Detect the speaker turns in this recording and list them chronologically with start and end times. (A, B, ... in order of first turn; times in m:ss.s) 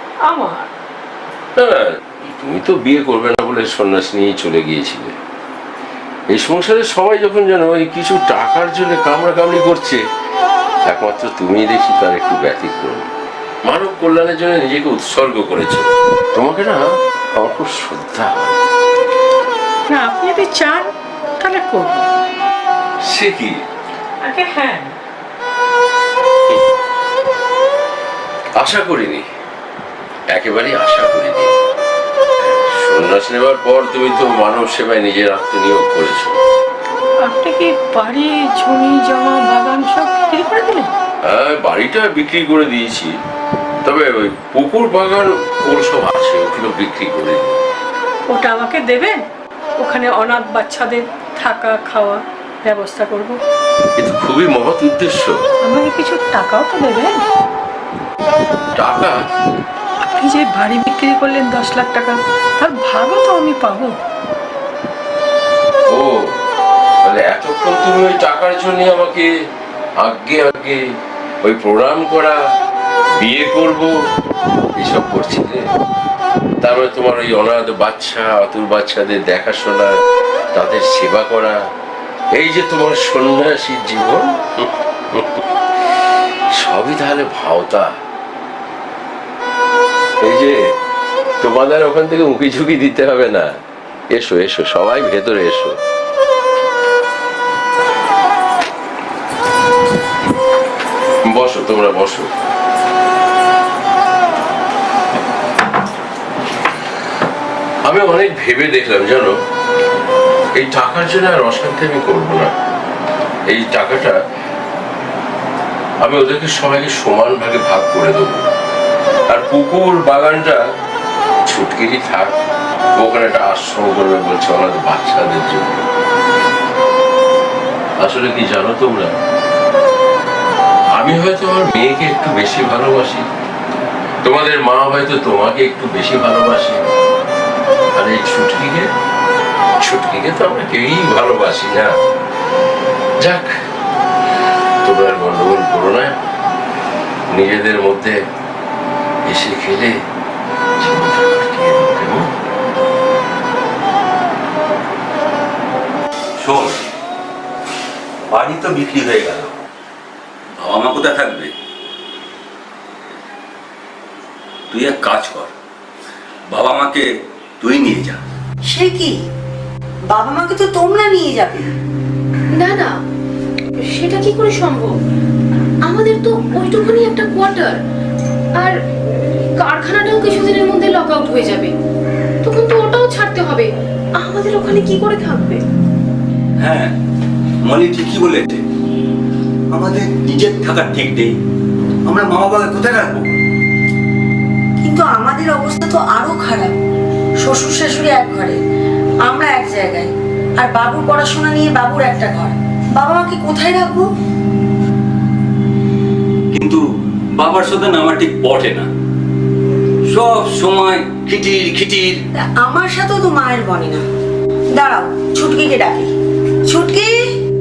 0:00.3-0:00.6 A
0:01.6-0:05.2 B
0:06.3-0:10.0 B
0:10.9-0:13.1 B
0:13.7-0:18.6 B
0:19.9-0:20.9 A
0:21.4-0:22.1 A
0:23.0-0:23.6 B
0:24.2-0:24.9 A
0:28.6-0:29.2 B
0:30.3-0:31.5 B
0:32.4-0:36.4 B
0:37.2-0:40.9 A
0:41.2-0:43.1 B
0:43.8-0:47.6 B
0:48.3-0:49.2 A
0:49.8-0:53.4 A
0:54.0-0:55.4 B
0:55.6-0:57.2 A
0:58.8-0:59.2 B
1:00.0-1:04.0 A
1:05.9-1:06.3 B
1:07.0-1:09.3 B
1:10.0-1:10.8 B
1:11.4-1:12.4 B
1:13.2-1:13.9 B
1:14.8-1:15.6 B
1:16.6-1:20.0 B
1:20.6-1:21.6 B
1:22.4-1:25.4 B
1:26.6-1:27.9 B
1:30.2-1:30.6 B
1:31.4-1:33.6 B
1:34.1-1:35.8 B
1:41.3-1:42.3 B
1:47.8-1:49.4 B
1:50.6-1:52.5 B
1:53.5-1:54.2 B
1:56.0-1:58.5 B
1:59.3-2:00.6 B
2:01.5-2:02.4 B
2:03.0-2:05.9 B
2:08.0-2:09.2 B
2:11.0-2:13.3 B
2:14.2-2:16.8 B
2:18.0-2:18.9 B
2:19.8-2:22.0 B
2:23.2-2:23.5 B
2:24.8-2:26.2 B
2:27.3-2:28.2 B
2:29.3-2:30.0 B
2:30.8-2:32.3 B
2:36.4-2:36.8 C
2:38.3-2:39.5 C
2:40.6-2:41.5 C
2:44.7-2:45.5 C
2:46.5-2:47.1 C
2:47.6-2:48.2 C
2:48.7-2:49.2 D
2:50.1-2:51.7 D
2:52.5-2:52.9 E
2:53.8-2:55.0 E
2:55.8-2:57.8 E
2:59.6-3:01.7 E
3:02.4-3:05.6 E
3:06.6-3:06.9 C
3:07.6-3:08.6 C
3:09.7-3:11.4 C
3:12.1-3:13.3 C
3:14.8-3:16.7 D
3:17.4-3:18.6 D
3:19.3-3:24.1 D
3:26.5-3:26.8 C
3:27.4-3:28.9 C
3:30.1-3:32.2 C
3:32.3-3:34.1 D
3:34.7-3:36.1 D
3:36.7-3:37.2 D